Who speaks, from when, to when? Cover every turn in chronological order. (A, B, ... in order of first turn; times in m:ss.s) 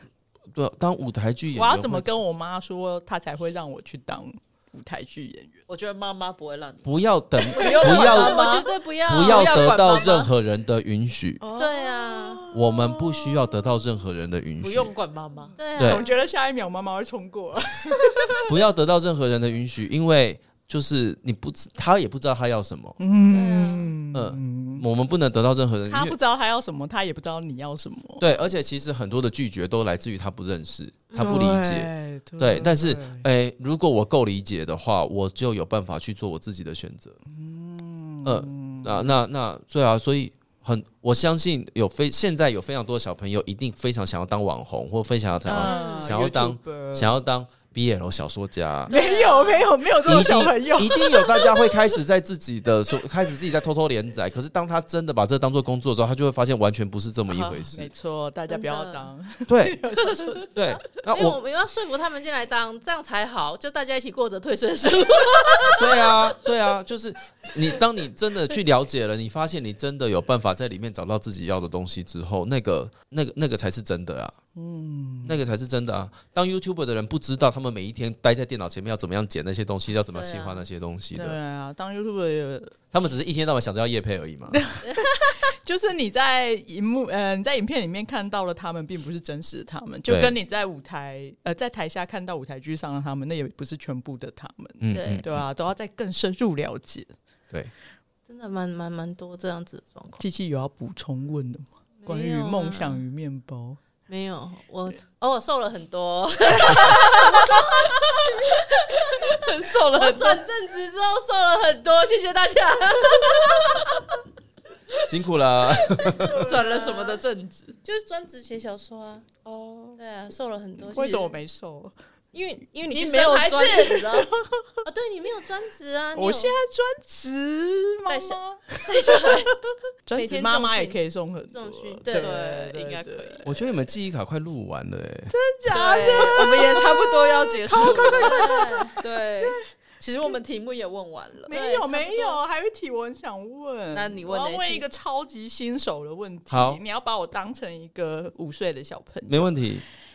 0:00.5-0:02.2 A
0:01.5-0:05.6 B
0:05.7-0:10.3 C
0:06.8-0:08.4 A
0:07.6-0:09.7 D
0:09.1-0:11.4 A
0:11.4-0:13.6 B
0:11.6-0:12.4 D
0:12.5-0:14.9 A
0:14.6-0:15.5 C
0:15.6-0:16.2 D
0:15.6-0:18.4 B
0:15.8-0:16.0 A
0:18.5-0:23.0 A
0:23.0-0:24.8 B
0:23.3-0:23.9 D
0:24.1-0:26.2 A
0:25.9-0:28.3 B
0:28.2-0:37.2 A
0:31.1-0:31.5 D
0:31.2-0:33.2 B
0:37.3-0:39.2 B
0:38.2-0:48.9 A
0:45.4-0:47.2 B
0:45.6-0:46.1 D
0:48.9-0:49.7 D
0:48.9-0:51.8 B
0:50.0-0:57.9 A
0:57.3-1:00.6 B
0:58.5-0:59.1 D
0:59.5-0:59.8 A
1:00.5-1:01.4 A
1:01.1-1:06.2 D
1:05.8-1:14.4 A
1:14.6-1:15.4 B
1:15.2-1:21.4 A
1:20.1-1:20.7 D
1:21.1-1:22.7 B
1:22.9-1:24.6 A
1:24.5-1:37.1 B
1:30.1-1:30.3 A
1:34.8-1:35.4 A
1:34.9-1:35.2 D
1:38.3-1:40.2 D
1:40.2-1:43.8 B
1:42.0-1:43.0 D
1:44.1-1:49.4 D
1:46.8-1:47.4 C
1:48.9-1:50.5 C
1:49.9-1:54.0 D
1:55.1-1:56.4 A
1:55.7-1:57.2 D
1:56.2-1:57.8 C
1:57.8-1:59.3 D
1:59.4-2:00.0 C
2:00.0-2:01.4 D
2:00.9-2:01.9 B
2:02.3-2:04.3 D
2:02.9-2:04.1 C
2:03.9-2:04.8 B
2:04.8-2:06.6 D
2:06.1-2:13.5 B
2:08.1-2:09.5 D
2:10.2-2:11.0 D
2:11.5-2:12.3 D
2:12.1-2:13.4 C
2:13.4-2:15.3 A
2:15.3-2:19.5 B
2:15.7-2:21.5 C
2:15.8-2:16.5 D
2:18.1-2:19.0 D
2:21.5-2:29.6 B
2:21.5-2:22.4 D
2:23.9-2:24.8 C
2:26.5-2:26.8 A
2:29.3-2:29.8 A